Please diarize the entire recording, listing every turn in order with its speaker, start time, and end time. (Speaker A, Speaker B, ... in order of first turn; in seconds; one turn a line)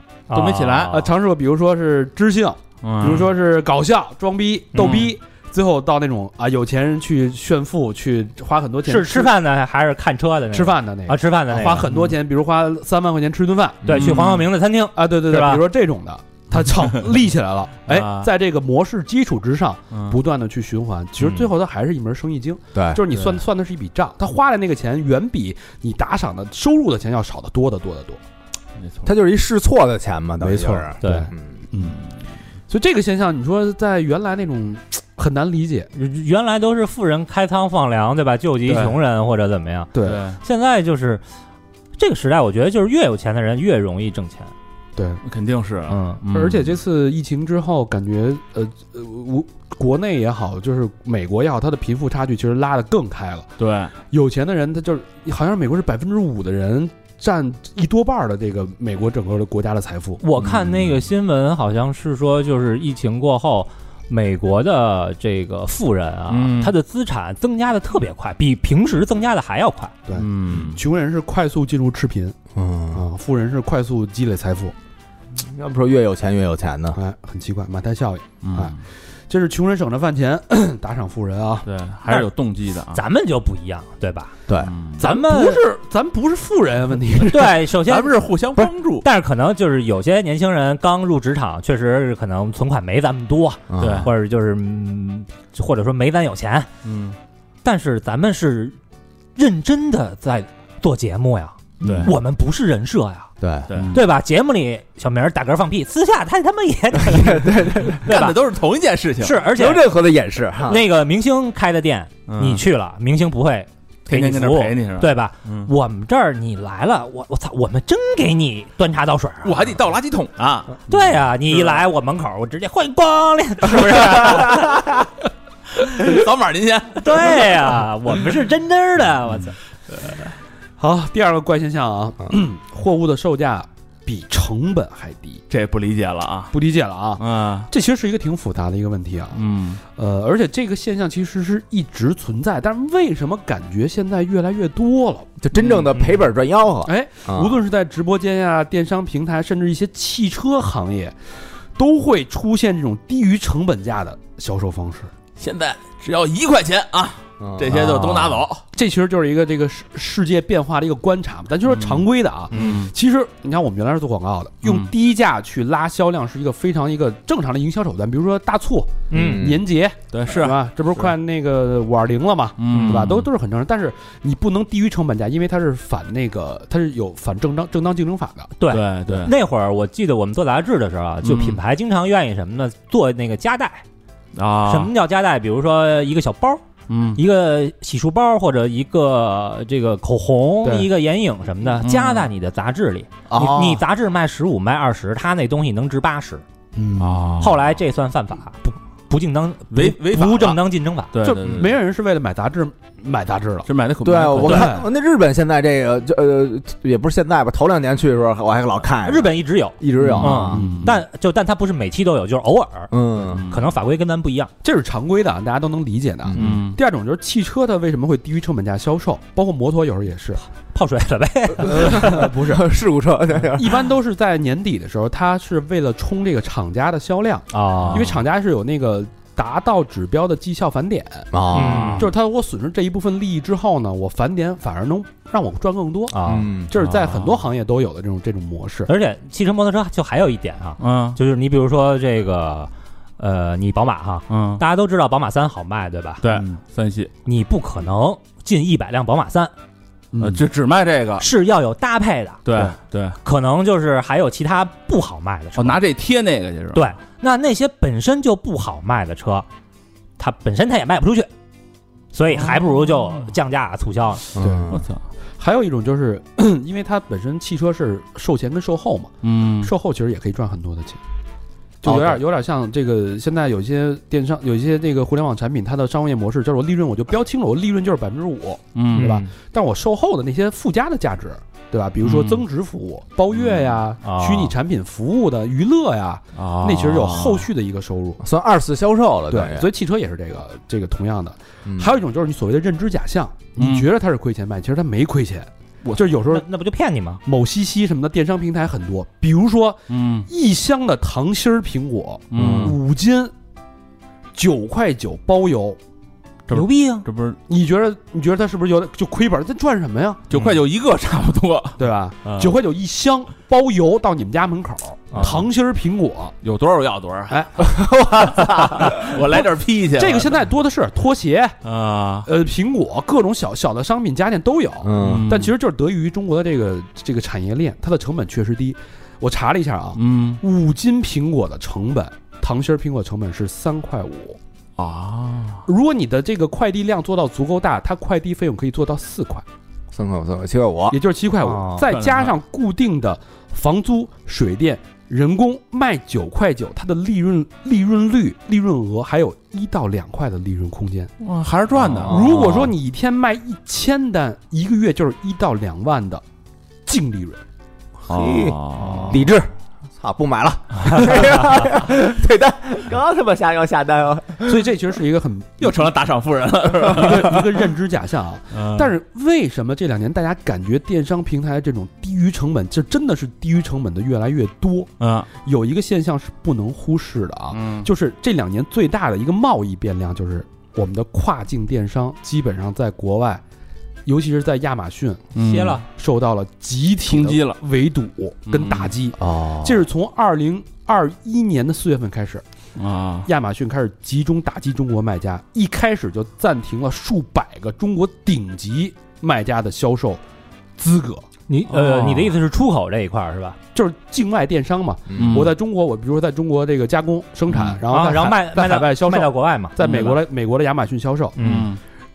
Speaker A: 0.3-1.1
Speaker B: 0.3-1.0
Speaker C: 0.9-9.3
Speaker B: 2.8-3.3
Speaker B: 4.7-5.1
Speaker A: 8.8-11.9
Speaker C: 10.5-13.8
Speaker B: 11.8-12.2
Speaker D: 13.8-14.2
Speaker B: 13.8-14.4
Speaker A: 13.9-15.6
Speaker C: 14.9-28.2
Speaker B: 17.9-18.3
Speaker B: 19.9-20.2
Speaker B: 21.2-21.5
Speaker D: 22.7-23.0
Speaker B: 23.1-23.4
Speaker B: 28.8-29.1
Speaker D: 29.0-31.6
Speaker C: 30.4-32.0
Speaker A: 31.0-31.3
Speaker B: 31.8-32.1
Speaker C: 32.7-35.9
Speaker A: 35.9-39.9
Speaker C: 38.7-38.9
Speaker C: 39.9-40.2
Speaker B: 40.0-40.4
Speaker A: 40.4-41.2
Speaker A: 42.0-44.5
Speaker C: 45.0-45.2
Speaker B: 45.2-46.8
Speaker A: 45.9-46.2
Speaker C: 46.3-53.5
Speaker B: 53.6-53.9
Speaker C: 54.1-60.2
Speaker A: 60.2-69.9
Speaker B: 60.4-61.0
Speaker B: 66.3-66.7
Speaker C: 70.1-72.3
Speaker B: 70.1-70.8
Speaker D: 72.5-73.0
Speaker C: 72.9-74.7
Speaker D: 75.3-77.0
Speaker C: 76.9-78.8
Speaker B: 78.4-78.8
Speaker C: 79.3-81.7
Speaker B: 81.6-83.0
Speaker A: 82.9-84.3
Speaker D: 84.5-84.7
Speaker B: 84.6-85.0
Speaker C: 85.0-87.6
Speaker A: 85.0-85.6
Speaker A: 87.3-88.1
Speaker B: 87.8-89.0
Speaker A: 89.0-96.7
Speaker D: 93.7-94.1
Speaker B: 93.8-94.1
Speaker B: 96.8-97.2
Speaker A: 97.6-98.8
Speaker A: 99.3-103.3
Speaker B: 101.8-102.1
Speaker D: 101.8-102.1
Speaker D: 103.4-103.9
Speaker B: 103.7-104.0
Speaker A: 103.9-108.3
Speaker D: 107.1-108.3
Speaker B: 108.0-109.4
Speaker A: 109.2-109.8
Speaker D: 109.5-110.8
Speaker A: 110.7-119.6
Speaker B: 112.3-112.6
Speaker B: 114.1-115.7
Speaker B: 119.4-121.8
Speaker A: 120.9-124.9
Speaker B: 123.7-124.8
Speaker B: 125.8-127.6
Speaker A: 127.0-129.6
Speaker C: 130.8-135.4
Speaker B: 135.5-136.5
Speaker C: 136.5-145.3
Speaker B: 137.2-137.7
Speaker B: 139.3-139.8
Speaker D: 145.4-147.6
Speaker B: 145.5-145.9
Speaker A: 145.9-146.2
Speaker C: 146.8-151.2
Speaker C: 151.8-155.1
Speaker B: 155.4-158.6
Speaker D: 157.4-158.4
Speaker C: 158.7-178.6
Speaker B: 161.7-162.9
Speaker B: 164.6-164.9
Speaker A: 169.1-169.4
Speaker D: 169.1-169.7
Speaker B: 170.1-171.1
Speaker B: 172.6-173.3
Speaker A: 178.6-183.8
Speaker B: 178.7-179.3
Speaker B: 181.2-181.6
Speaker B: 184.3-184.9
Speaker A: 184.7-186.6
Speaker B: 186.9-187.2
Speaker A: 187.1-196.4
Speaker C: 190.6-190.9
Speaker B: 191.8-192.3
Speaker D: 193.3-193.8
Speaker C: 196.7-197.2
Speaker B: 197.0-197.6
Speaker A: 197.4-201.1
Speaker B: 199.7-200.6
Speaker B: 201.1-201.8
Speaker C: 201.2-203.7
Speaker B: 203.7-204.8
Speaker D: 204.0-210.7
Speaker C: 204.4-204.9
Speaker A: 209.0-212.9
Speaker B: 210.0-210.9
Speaker C: 210.5-210.9
Speaker D: 212.9-213.4
Speaker B: 213.3-213.7
Speaker A: 213.5-214.5
Speaker C: 214.6-220.4
Speaker D: 216.2-216.6
Speaker B: 216.4-216.8
Speaker A: 220.7-222.1
Speaker C: 221.6-222.7
Speaker D: 221.6-223.9
Speaker C: 223.5-238.9
Speaker A: 227.5-228.1
Speaker B: 227.8-228.1
Speaker D: 231.3-232.1
Speaker A: 231.5-232.1
Speaker A: 236.1-236.5
Speaker D: 236.2-236.7
Speaker B: 236.7-237.5
Speaker A: 238.9-246.2
Speaker B: 240.8-241.2
Speaker B: 244.3-244.6
Speaker B: 246.2-247.1
Speaker A: 247.2-249.5
Speaker C: 250.1-250.4
Speaker B: 250.2-251.2
Speaker A: 251.2-252.4
Speaker B: 252.4-253.2
Speaker A: 253.2-255.8
Speaker B: 255.6-256.9
Speaker A: 256.7-259.4
Speaker A: 260.2-261.3
Speaker A: 262.1-264.2
Speaker B: 262.3-263.3
Speaker D: 264.3-264.8
Speaker C: 264.4-264.8
Speaker B: 264.7-265.0
Speaker C: 265.4-271.0
Speaker B: 269.2-269.7
Speaker C: 271.8-288.2
Speaker B: 271.9-272.1
Speaker B: 278.7-279.1
Speaker A: 278.9-279.2
Speaker B: 282.0-282.4
Speaker B: 283.3-283.8
Speaker A: 284.0-284.5
Speaker B: 286.3-287.5
Speaker D: 288.2-289.7
Speaker C: 289.3-296.4
Speaker D: 291.6-291.9
Speaker B: 293.6-293.9
Speaker B: 295.8-296.1
Speaker A: 296.3-297.2
Speaker C: 297.2-303.3
Speaker B: 299.9-300.3
Speaker B: 302.3-302.8
Speaker D: 302.3-302.7
Speaker C: 304.3-305.8
Speaker B: 306.5-307.4
Speaker A: 306.5-307.1
Speaker C: 307.5-310.2
Speaker B: 310.3-312.6
Speaker C: 311.8-316.3
Speaker A: 315.1-315.4
Speaker B: 316.4-317.4
Speaker C: 317.3-317.8
Speaker D: 317.7-319.0
Speaker B: 318.3-320.4
Speaker C: 318.4-319.4
Speaker C: 319.9-321.6
Speaker B: 321.6-322.3
Speaker C: 322.2-334.4
Speaker D: 324.8-325.3
Speaker B: 325.0-325.5
Speaker B: 329.9-330.4
Speaker B: 334.8-335.6
Speaker C: 335.6-339.4
Speaker D: 339.9-341.0
Speaker C: 340.9-351.1
Speaker A: 341.4-341.9
Speaker B: 341.9-342.4
Speaker B: 351.2-352.7
Speaker D: 351.9-352.7
Speaker C: 352.0-356.2
Speaker C: 356.9-357.4
Speaker B: 358.1-359.2
Speaker D: 358.1-364.7
Speaker A: 358.8-359.2
Speaker C: 364.4-365.9
Speaker B: 365.6-367.6
Speaker C: 366.8-383.4
Speaker B: 368.5-368.9
Speaker B: 375.0-375.3
Speaker B: 377.5-377.9
Speaker C: 384.1-385.3
Speaker B: 385.3-385.8
Speaker A: 385.4-385.8
Speaker C: 385.8-392.4
Speaker B: 387.0-387.6
Speaker B: 388.5-388.9
Speaker D: 389.2-389.9
Speaker B: 392.8-393.3
Speaker C: 393.2-400.2
Speaker C: 400.8-401.3
Speaker A: 401.5-403.6
Speaker B: 401.7-402.3
Speaker C: 403.7-411.4
Speaker D: 405.1-405.5
Speaker B: 405.2-405.5
Speaker B: 407.5-407.8
Speaker A: 407.9-409.9
Speaker B: 409.8-410.2
Speaker A: 411.4-411.7
Speaker B: 411.4-411.8